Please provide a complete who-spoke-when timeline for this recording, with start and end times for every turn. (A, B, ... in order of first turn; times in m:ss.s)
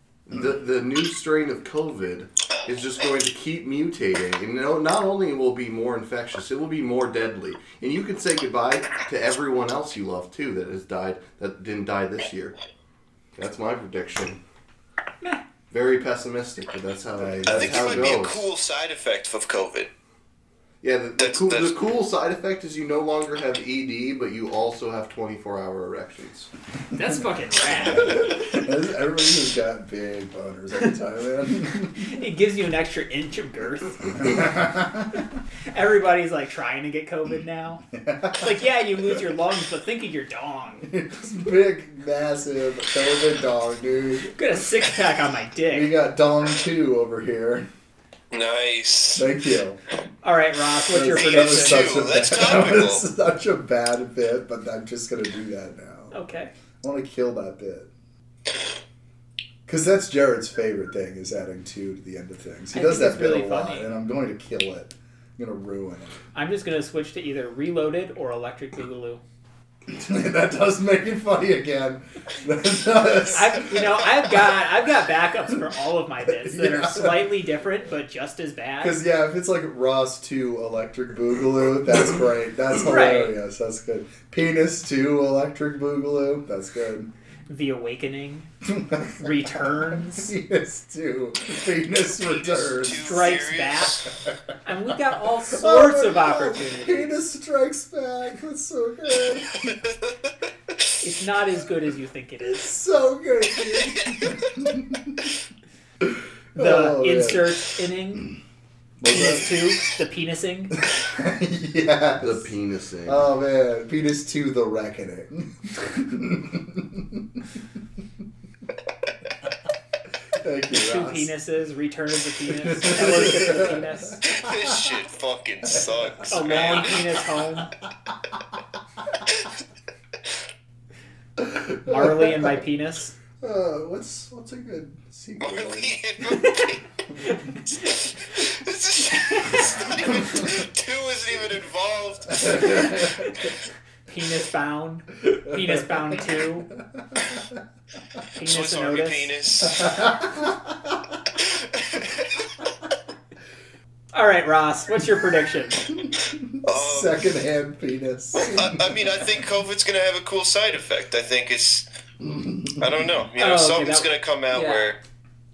0:00.3-0:12.6 A
0:13.4-0:14.4 A
0:15.7-0:18.5 A
0:17.2-0:18.2 B
0:17.5-0:19.9 C
0:20.8-0:26.5 A
0:21.2-0:21.8 C
0:26.9-0:28.3 D
0:27.8-0:32.1 B
0:32.0-0:34.5 D
0:34.2-0:35.2 B
0:35.7-0:37.8 D
0:37.9-0:38.6 B
0:38.4-0:40.9 D
0:40.8-0:44.3 B
0:44.4-0:45.9 D
0:45.7-0:47.7 B
0:48.3-0:49.2 C
0:49.2-0:49.8 B
0:50.2-0:52.0 D
0:50.9-0:56.1 B
0:51.1-0:53.0 C
0:56.1-0:56.5 D
0:56.8-0:57.9 B
0:59.7-1:06.2 B
1:02.7-1:03.9 D
1:06.4-1:09.2 D
1:09.9-1:13.9 B
1:13.3-1:19.0 D
1:16.3-1:17.3 B
1:18.8-1:27.1 B
1:22.8-1:23.4 D
1:27.5-1:28.5 D
1:28.6-1:33.3 B
1:29.2-1:30.3 D
1:32.2-1:34.1 C
1:33.0-1:34.1 D
1:34.6-1:37.1 D
1:35.5-1:39.8 B
1:41.0-1:42.8 D
1:42.5-1:45.2 B
1:46.0-1:47.4 B
1:46.6-1:48.3 D
1:49.0-1:49.6 B
1:49.1-1:50.8 D
1:50.8-1:52.4 B
1:52.2-1:53.3 A
1:53.1-1:57.2 B
2:00.4-2:01.3 B
2:00.7-2:04.3 D
2:02.6-2:04.9 B
2:04.2-2:07.1 C
2:06.3-2:07.7 D
2:11.4-2:12.5 B
2:11.8-2:13.1 D
2:13.4-2:16.0 B
2:15.4-2:16.8 C
2:17.7-2:23.0 C
2:19.2-2:19.6 D
2:22.4-2:23.2 B
2:22.9-2:23.3 D
2:24.1-2:26.7 D
2:28.4-2:29.3 D
2:28.4-2:30.0 C
2:29.8-2:30.6 B
2:31.4-2:32.2 C
2:34.1-2:35.8 D
2:36.3-2:39.2 B
2:36.6-2:37.2 C
2:38.4-2:41.8 C
2:42.2-2:43.1 B
2:42.8-2:45.0 C
2:43.4-2:45.0 D